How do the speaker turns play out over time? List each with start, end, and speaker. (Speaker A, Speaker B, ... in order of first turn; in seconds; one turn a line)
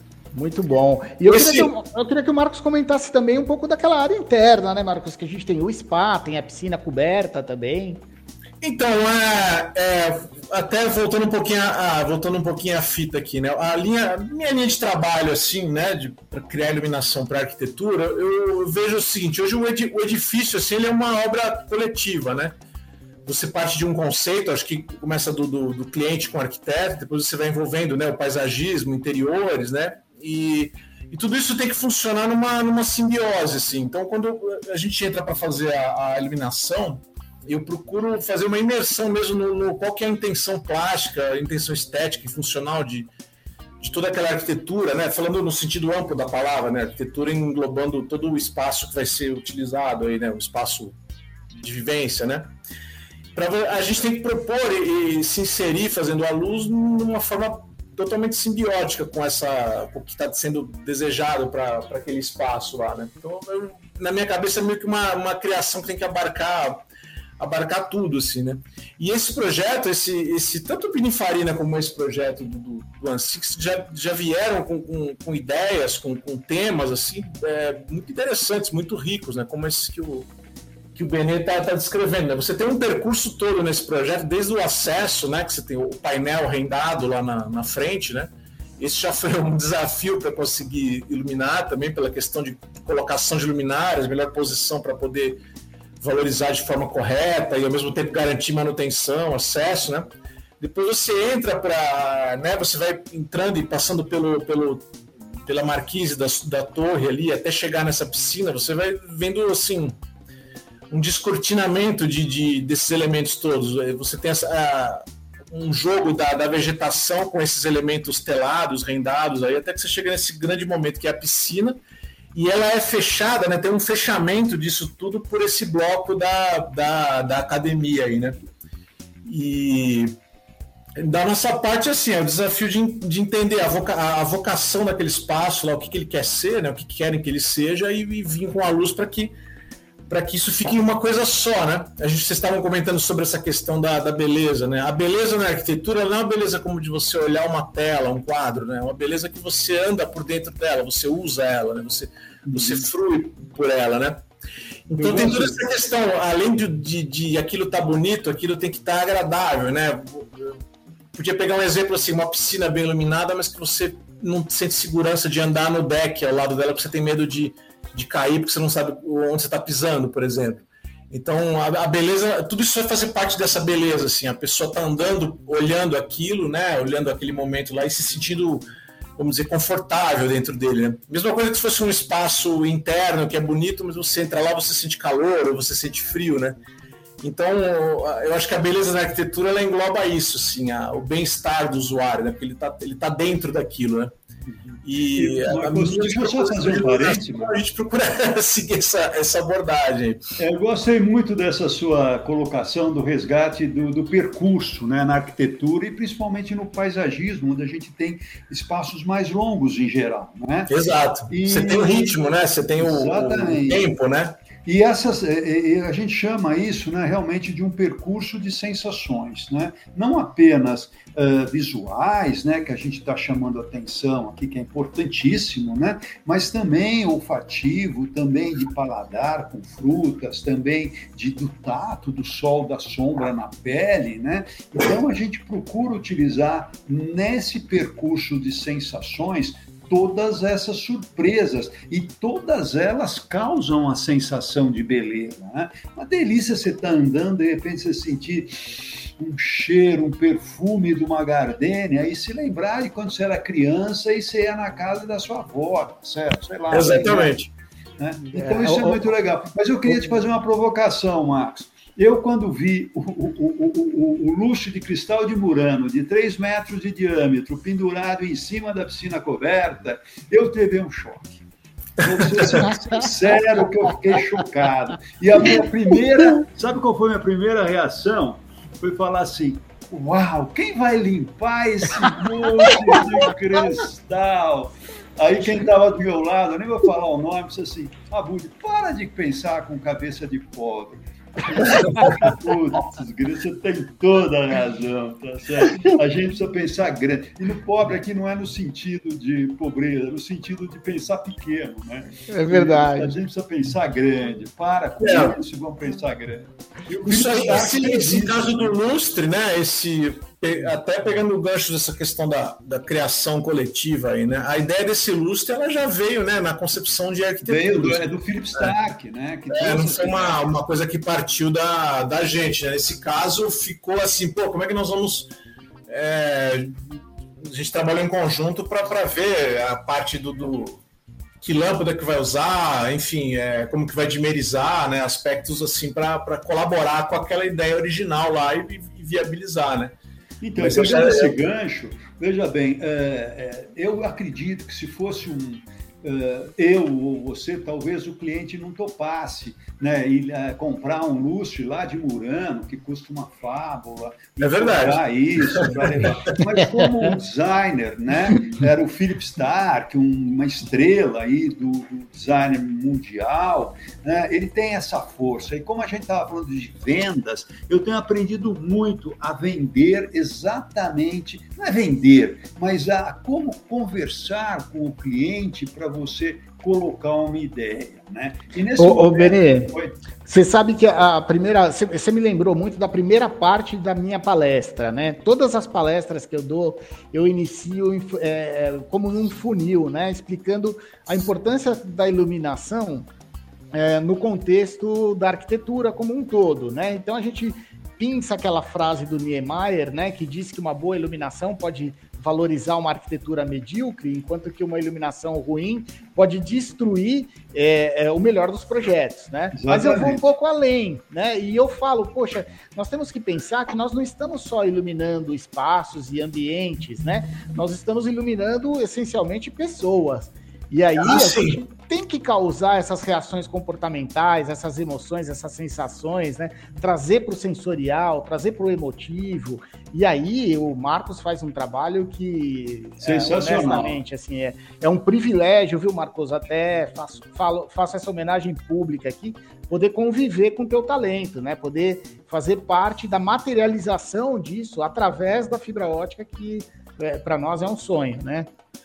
Speaker A: 0.3-8.0
Speaker B: 1.2-1.7
Speaker B: 8.6-22.6
Speaker B: 23.2-43.1
Speaker B: 43.8-51.0
Speaker B: 51.6-52.5
Speaker B: 53.3-66.8
Speaker B: 67.4-80.3
Speaker B: 80.9-95.4
Speaker B: 96.0-104.9
Speaker B: 105.4-110.0
Speaker B: 110.9-121.8
Speaker B: 122.3-128.4
Speaker B: 129.2-130.2
Speaker B: 131.0-139.3
Speaker B: 140.1-154.2
Speaker C: 152.5-152.8
Speaker B: 154.9-160.6
Speaker C: 155.0-155.6
Speaker B: 161.1-178.6
Speaker B: 179.2-186.6
Speaker B: 187.2-194.1
Speaker C: 194.5-197.5
Speaker B: 194.8-200.2
Speaker C: 200.4-210.7
Speaker B: 210.7-214.4
Speaker C: 211.3-212.2
Speaker C: 212.8-213.8
Speaker C: 214.6-257.3
Speaker B: 256.7-257.5
Speaker C: 258.0-271.4
Speaker A: 258.2-259.1
Speaker A: 259.9-260.2
Speaker C: 272.0-308.7
Speaker B: 272.3-272.6
Speaker B: 291.8-292.1
Speaker A: 302.3-303.1
Speaker B: 305.0-305.4
Speaker B: 307.1-318.7
Speaker C: 317.4-320.4
Speaker B: 319.5-325.3
Speaker B: 325.9-326.8
Speaker B: 327.4-330.8
Speaker B: 331.4-339.9
Speaker C: 340.4-379.9
Speaker B: 340.6-341.4
Speaker B: 354.4-356.1
Speaker A: 378.8-379.7
Speaker A: 380.2-393.1
Speaker A: 393.7-448.5
Speaker C: 409.5-410.2
Speaker B: 421.0-421.6
Speaker C: 433.0-434.0